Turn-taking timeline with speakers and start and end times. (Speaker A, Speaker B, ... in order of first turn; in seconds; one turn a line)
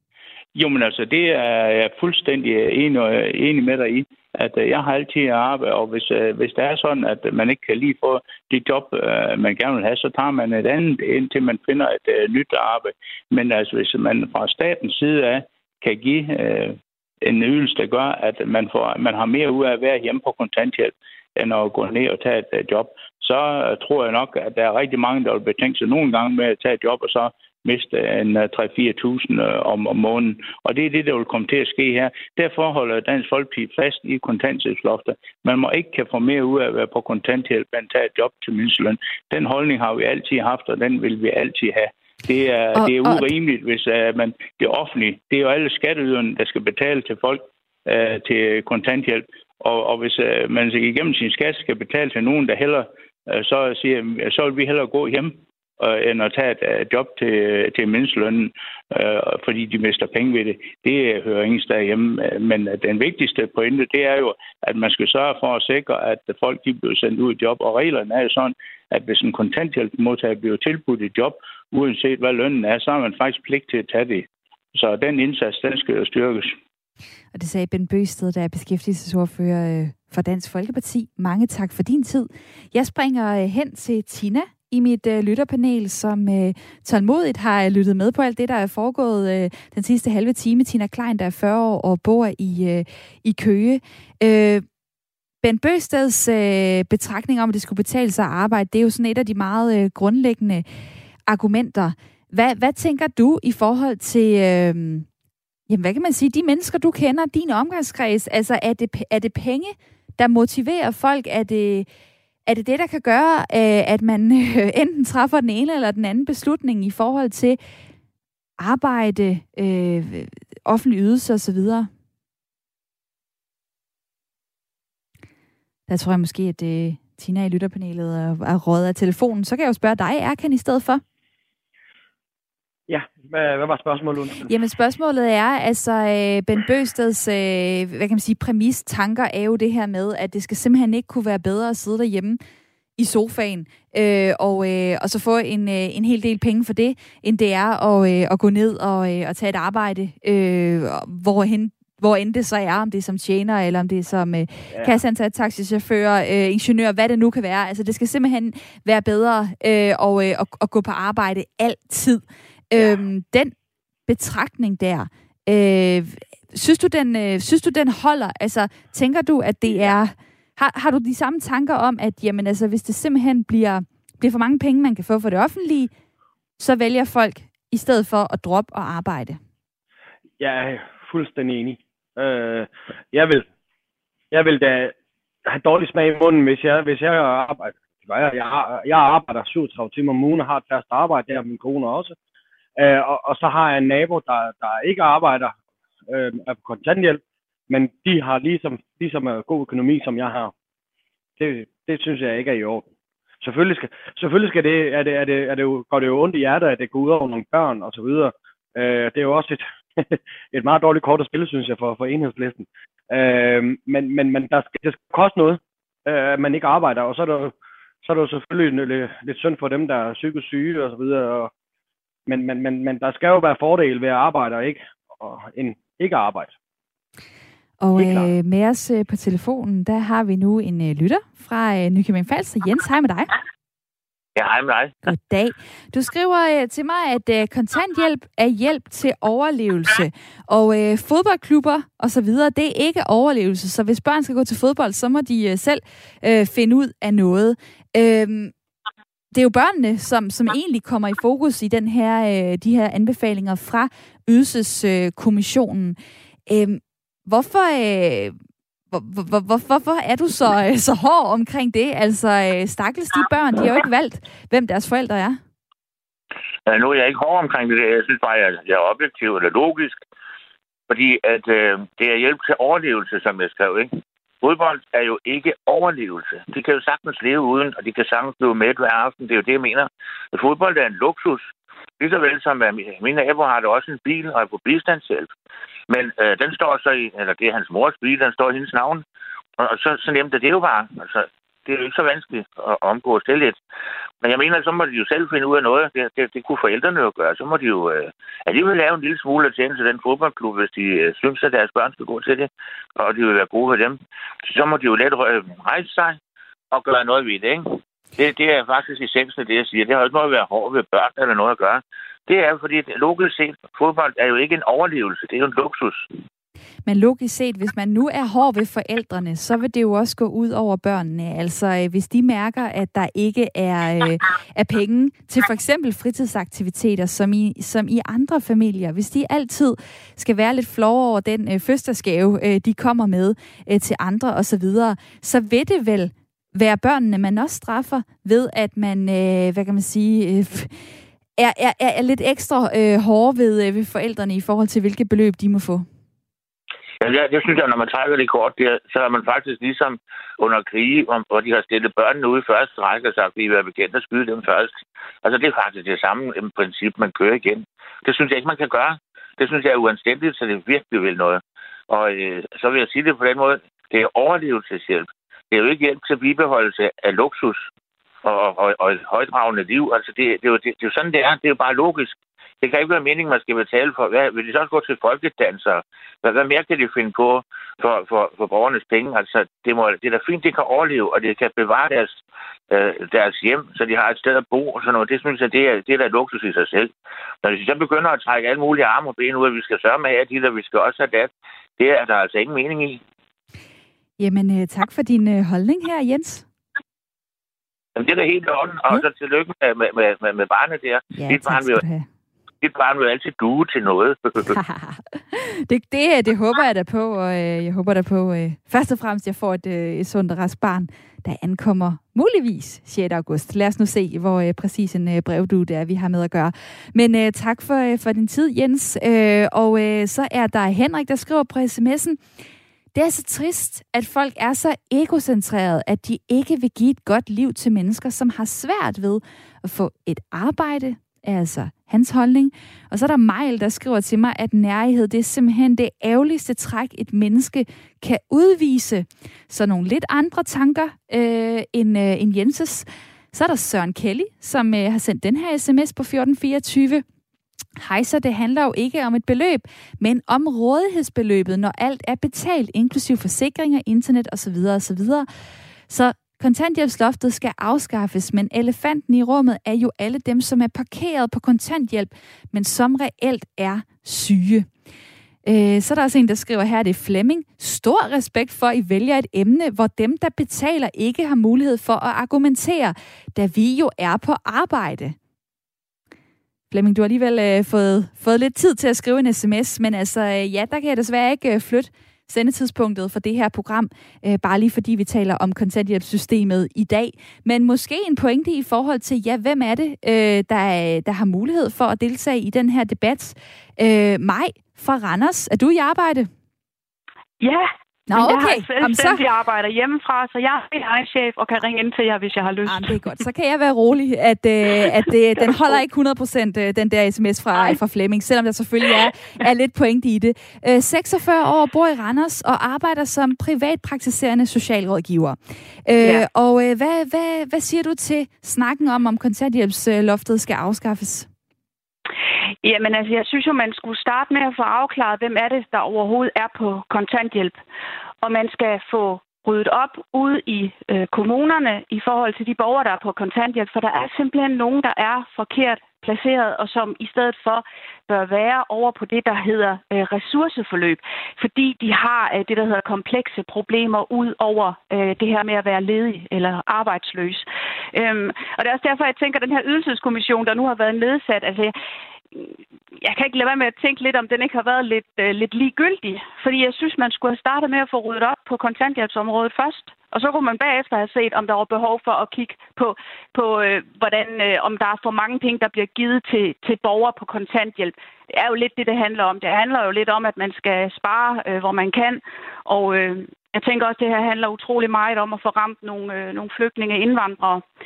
Speaker A: 0.6-76.6
Speaker B: 42.8-43.3
Speaker B: 77.3-94.7
Speaker B: 95.4-100.7
Speaker B: 101.3-105.1
Speaker B: 105.7-111.9
Speaker B: 112.5-117.6
Speaker B: 118.6-121.9
Speaker B: 125.9-131.0
Speaker C: 132.9-134.4
Speaker B: 134.4-142.4
Speaker B: 143.0-163.5
Speaker B: 164.1-175.9
Speaker C: 169.7-170.0
Speaker B: 176.6-179.4
Speaker C: 180.4-183.5
Speaker C: 184.3-184.9
Speaker C: 185.5-192.1
Speaker C: 192.8-195.6
Speaker C: 196.1-200.5
Speaker C: 201.4-202.9
Speaker C: 203.4-221.5
Speaker C: 222.3-226.5
Speaker B: 227.8-233.3
Speaker C: 228.0-228.3
Speaker D: 234.3-235.1
Speaker B: 235.1-248.5
Speaker B: 249.3-258.4
Speaker B: 258.9-265.4
Speaker D: 266.7-270.0
Speaker D: 270.9-273.9
Speaker D: 274.4-281.5
Speaker D: 282.0-285.3
Speaker D: 285.9-289.0
Speaker D: 289.6-293.6
Speaker D: 294.2-306.2
Speaker D: 306.7-316.0
Speaker B: 316.9-345.9
Speaker D: 347.0-354.7
Speaker D: 355.2-367.7
Speaker D: 368.2-382.2
Speaker D: 382.7-386.9
Speaker D: 387.4-393.0
Speaker B: 394.2-396.4
Speaker D: 398.0-401.8
Speaker B: 401.1-402.1
Speaker D: 402.6-404.6
Speaker B: 404.5-422.2
Speaker B: 422.9-447.0
Speaker B: 447.8-455.3
Speaker B: 455.9-464.7
Speaker B: 465.4-475.2
Speaker B: 476.7-496.3
Speaker E: 497.4-503.2
Speaker B: 498.1-499.2
Speaker B: 502.6-521.3
Speaker E: 516.0-516.3
Speaker E: 522.6-527.6
Speaker E: 528.2-551.7
Speaker E: 552.3-577.6